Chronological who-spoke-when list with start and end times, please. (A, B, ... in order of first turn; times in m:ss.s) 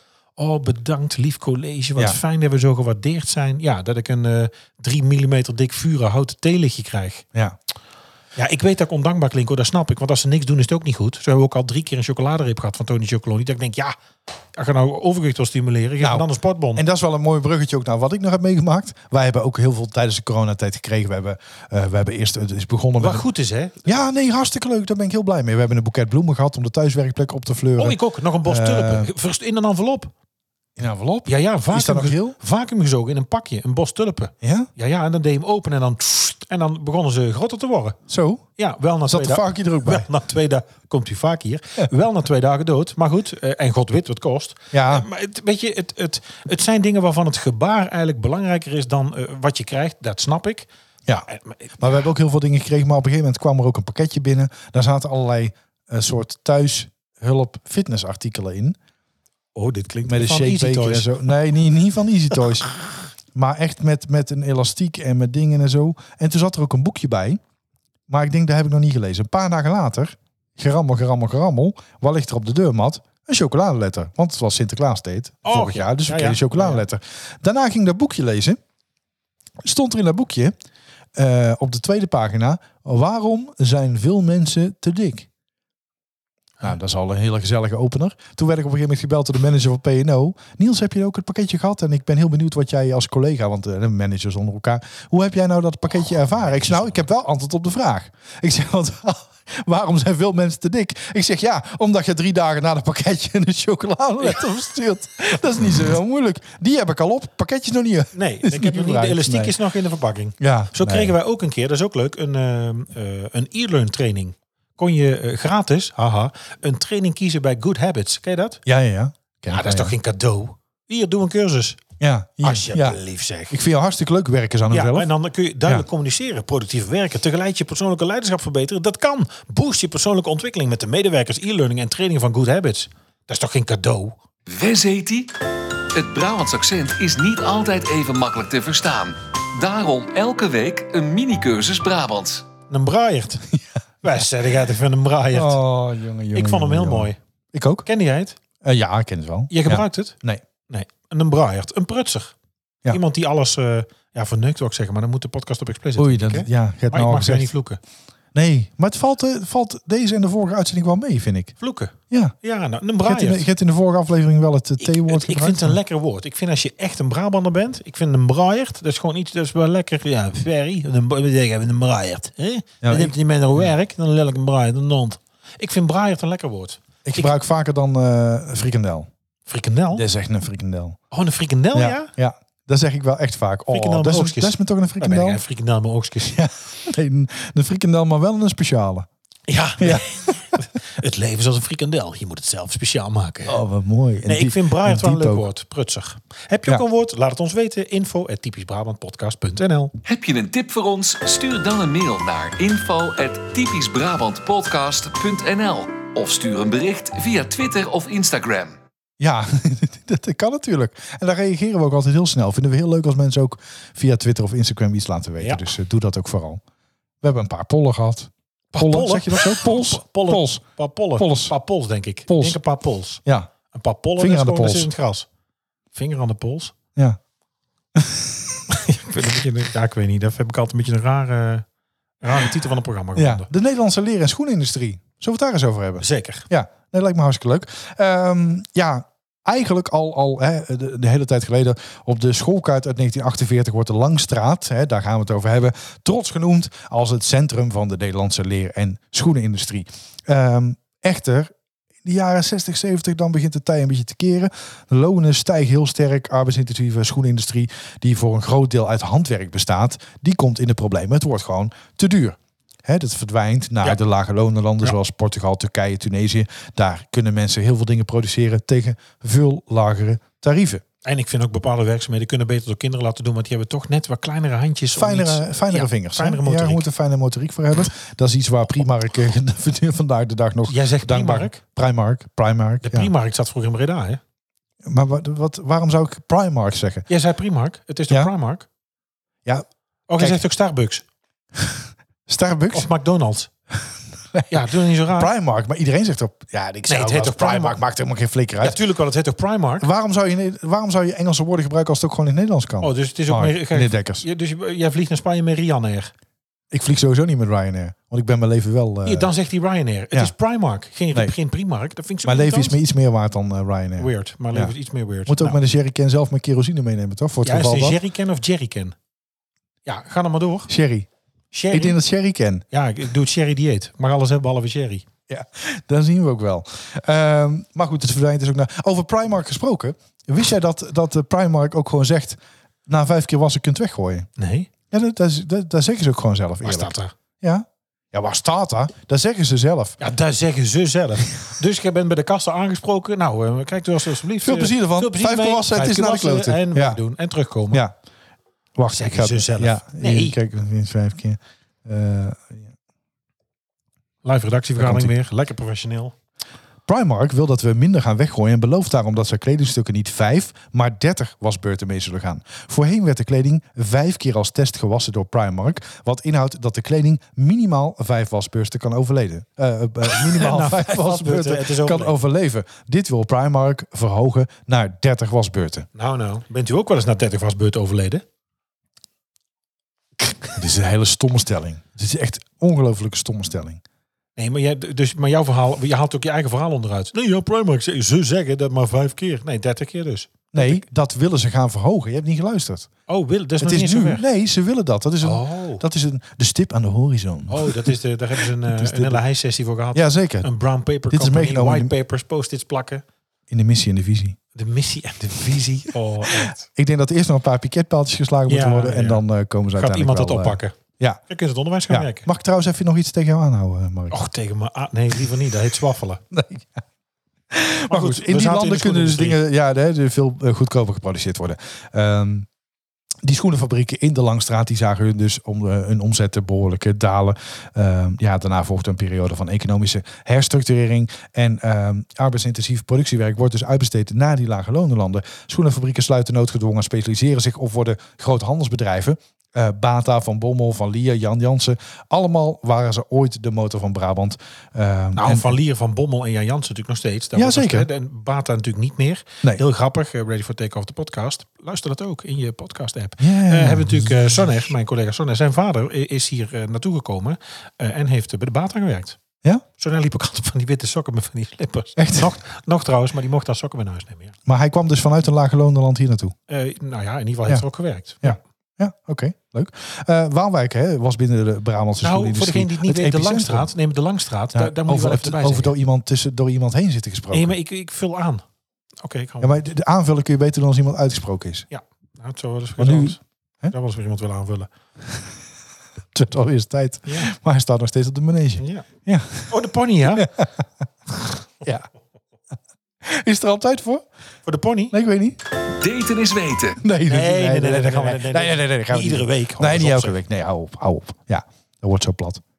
0:00.4-0:07.2 A
0:08.4-0:13.9 A
0:14.5-0:16.8 A
0:16.0-0:23.2 B
0:23.0-0:23.9 A
0:23.8-0:29.1 B
0:27.8-0:30.1 A
0:30.8-0:32.4 B
0:31.2-0:38.0 A
0:34.4-0:34.7 B
0:38.1-0:38.4 B
0:38.6-0:50.7 A
0:39.0-0:40.0 B
0:44.7-0:45.0 B
0:51.3-0:51.9 A
0:51.8-0:58.8 B
0:59.5-1:01.3 A
1:00.0-1:02.7 B
1:03.3-1:07.4 B
1:08.1-1:18.6 B
1:15.4-1:16.8 A
1:19.6-1:20.5 B
1:21.1-1:25.3 B
1:26.6-1:49.5 B
1:48.1-1:58.6 A
1:50.4-1:51.1 B
1:58.6-1:59.9 B
1:59.5-2:01.8 A
2:02.0-2:03.0 B
2:02.4-2:03.6 A
2:03.5-2:05.1 B
2:04.7-2:14.2 A
2:14.5-2:15.3 C
2:15.9-2:22.4 C
2:22.7-2:23.4 A
2:24.0-2:25.6 A
2:25.3-2:27.8 B
2:26.3-2:27.2 A
2:27.8-2:28.4 A
2:28.6-2:30.4 B
2:29.5-2:30.1 A
2:30.7-2:32.3 A
2:32.9-2:37.8 A
2:36.0-2:37.5 B
2:38.3-2:41.5 B
2:41.6-2:43.4 A
2:42.1-2:42.3 B
2:43.0-2:45.8 B
2:44.8-2:57.3 A
2:52.8-2:53.7 B
2:57.0-2:59.1 B
2:59.5-3:00.0 A
2:59.9-3:01.0 B
3:01.1-3:02.1 A
3:01.7-3:05.4 B
3:03.7-3:06.4 A
3:06.2-3:09.1 B
3:09.5-3:13.6 A
3:09.8-3:10.3 B
3:13.4-3:15.5 B
3:14.2-3:19.9 A
3:20.0-3:28.7 C
3:29.2-3:36.6 B
3:37.2-3:40.6 B
3:38.7-3:45.3 A
3:41.2-3:41.5 B
3:42.3-3:42.6 B
3:43.2-3:43.5 B
3:44.2-3:44.9 B
3:45.9-3:46.7 A
3:47.9-3:48.6 B
3:48.7-3:51.6 A
3:52.2-3:53.5 A
3:53.2-4:11.5 B
3:56.0-3:56.5 A
4:12.0-4:30.8 B
4:31.0-4:36.8 A
4:34.9-4:43.1 B
4:40.7-4:41.6 A
4:42.8-4:44.2 A
4:44.8-4:47.0 B
4:47.1-4:48.6 A
4:50.1-4:51.0 A
4:51.6-4:52.9 B
4:52.7-4:53.5 A
4:54.5-4:55.3 A
4:55.1-4:58.8 B
4:56.9-4:57.8 A
4:58.6-4:59.9 A
4:59.8-5:04.2 B
5:02.8-5:06.1 A
5:06.7-5:09.3 B
5:09.0-5:12.8 A
5:12.2-5:14.7 B
5:14.0-5:15.6 A
5:15.2-5:18.0 B
5:17.4-5:19.0 A
5:19.8-5:20.7 A
5:20.7-5:21.1 B
5:21.5-5:22.0 A
5:21.7-5:22.6 B
5:22.7-5:25.0 A
5:25.3-5:34.3 B
5:34.4-5:34.7 A
5:34.9-5:40.0 B
5:36.6-5:37.1 A
5:40.0-5:47.8 A
5:44.4-5:47.0 B
5:48.8-5:52.7 B
5:48.9-5:50.4 A
5:54.2-5:56.1 A
5:54.8-5:55.1 B
5:56.9-6:15.9 B
6:10.1-6:12.2 A
6:15.9-6:18.2 A
6:20.5-6:23.8 B
6:24.4-6:30.8 A
6:30.5-6:32.9 B
6:33.1-6:34.2 A
6:33.6-6:37.9 B
6:35.2-6:35.8 A
6:37.5-6:43.0 A
6:38.6-6:39.2 B
6:39.9-6:40.5 B
6:41.1-6:41.9 B
6:43.5-6:44.4 B
6:44.5-6:46.6 A
6:46.3-6:51.2 B
6:48.5-6:49.2 A
6:49.7-6:50.8 A
6:51.3-6:52.3 A
6:51.9-6:54.2 B
6:54.1-6:56.2 A
6:56.3-6:56.8 B
6:57.5-7:02.5 B
6:57.9-6:59.4 A
7:03.2-7:25.5 B
7:25.2-7:39.2 A
7:27.4-7:27.9 B
7:33.2-7:34.4 B
7:39.8-7:44.4 A
7:42.0-7:42.3 B
7:44.4-7:46.3 B
7:46.5-7:48.4 A
7:48.2-7:53.7 B
7:52.0-7:55.7 A
7:54.5-7:57.5 B
7:57.3-7:58.4 A
7:59.0-7:59.7 A
7:59.4-8:01.7 B
8:01.7-8:04.7 A
8:02.8-8:03.7 B
8:06.1-8:10.6 B
8:07.0-8:07.3 A
8:08.6-8:08.8 A
8:09.5-8:10.3 A
8:11.6-8:11.9 B
8:13.0-8:14.0 B
8:14.4-8:14.9 A
8:14.9-8:15.4 B
8:15.6-8:16.8 C
8:16.8-8:22.4 B
8:17.1-8:20.2 A